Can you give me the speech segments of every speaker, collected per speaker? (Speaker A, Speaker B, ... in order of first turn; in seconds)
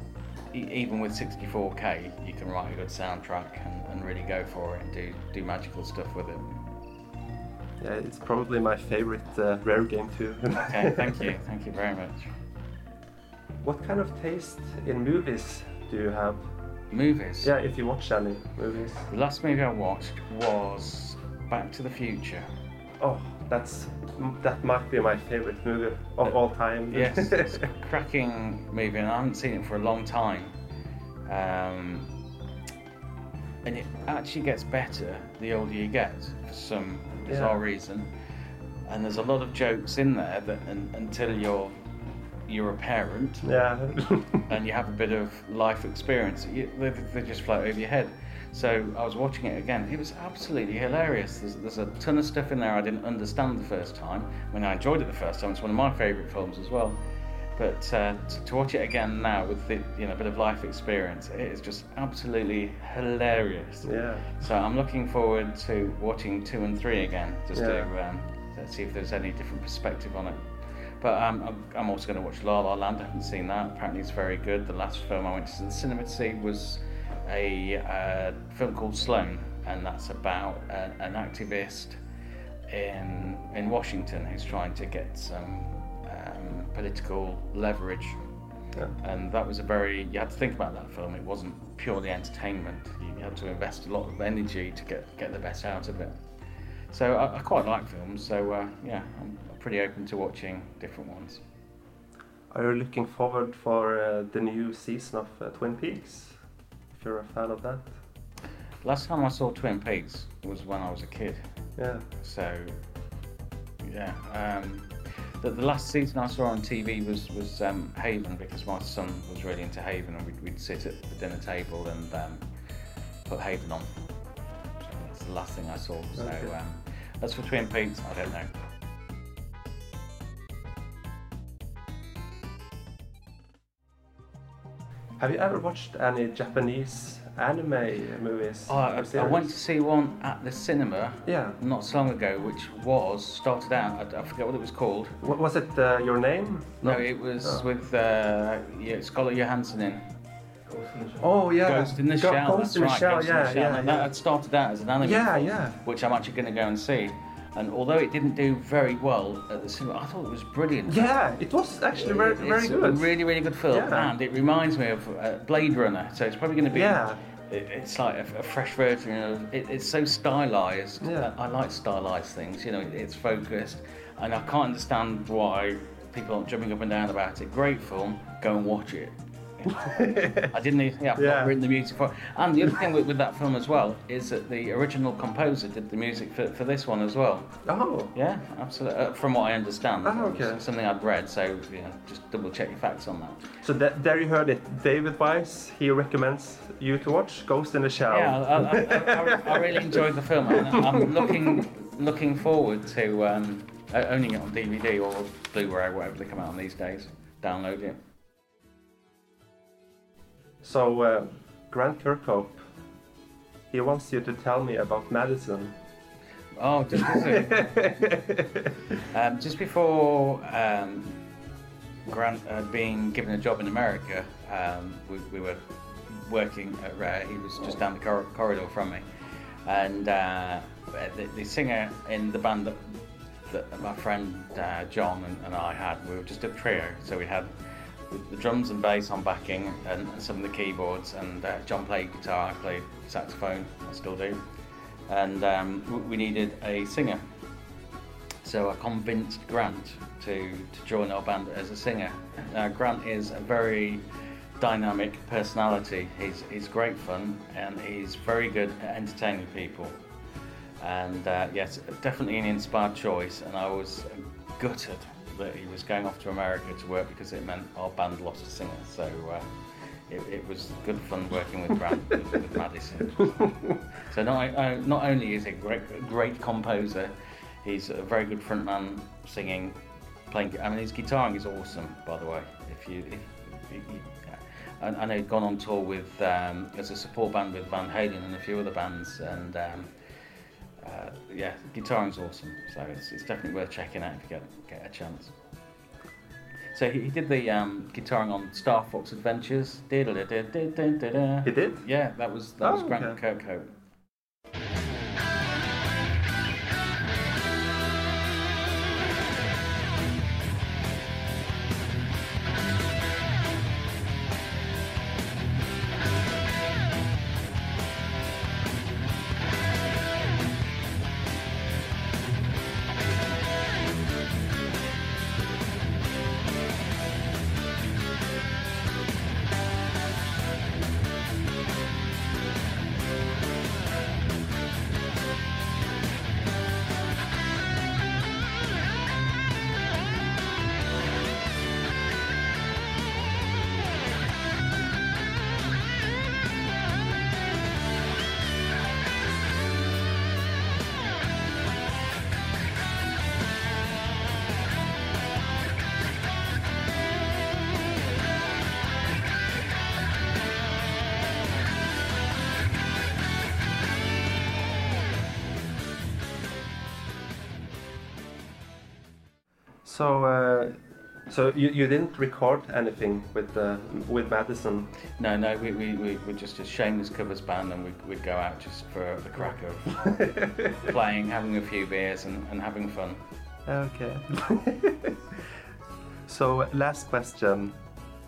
Speaker A: 0.5-6.6, 10.5-12.3, 16.9-17.6, 19.1-22.5, 26.2-30.6, 31.3-32.1, 33.6-38.1, 38.9-41.8, 42.5-43.6, 44.5-57.0, 57.6-82.0, 82.7-88.2, 89.0-96.2, 96.9-101.4, 108.8-111.4, 112.2-112.8, 113.8-122.5, 123.3-123.9, 124.8-128.5, 138.7-145.2, 146.8-150.0, 151.5-161.1, 161.9-187.6, 188.1-193.4, 198.1-208.0, 216.6-217.8, 219.1-221.2, 222.1-229.1, 229.7-237.5, 238.1-244.4, 245.1-247.2, 248.4-254.1, 254.6-260.0, 260.8-269.5, 270.1-289.9, 290.8-295.3, 296.7-303.7, 375.2-380.1, 380.8-383.2
Speaker B: 7.8-11.3, 13.6-16.5, 17.4-19.0, 23.0-27.6, 37.3-37.6, 43.5-44.5, 63.9-64.3, 67.5-67.9, 102.5-106.4, 106.9-107.9, 111.8-112.1, 126.2-126.5, 135.2-139.5, 141.3-141.6, 145.2-147.7, 151.2-154.1, 155.0-155.8, 160.9-163.0, 163.7-164.1, 166.7-167.2, 171.0-171.3, 179.9-180.5, 181.2-181.5, 187.7-188.1, 190.1-190.6, 193.6-199.4, 210.6-212.6, 213.7-215.7, 217.6-218.4
Speaker C: 369.9-370.7, 371.3-374.8, 383.7-384.7, 386.3-387.7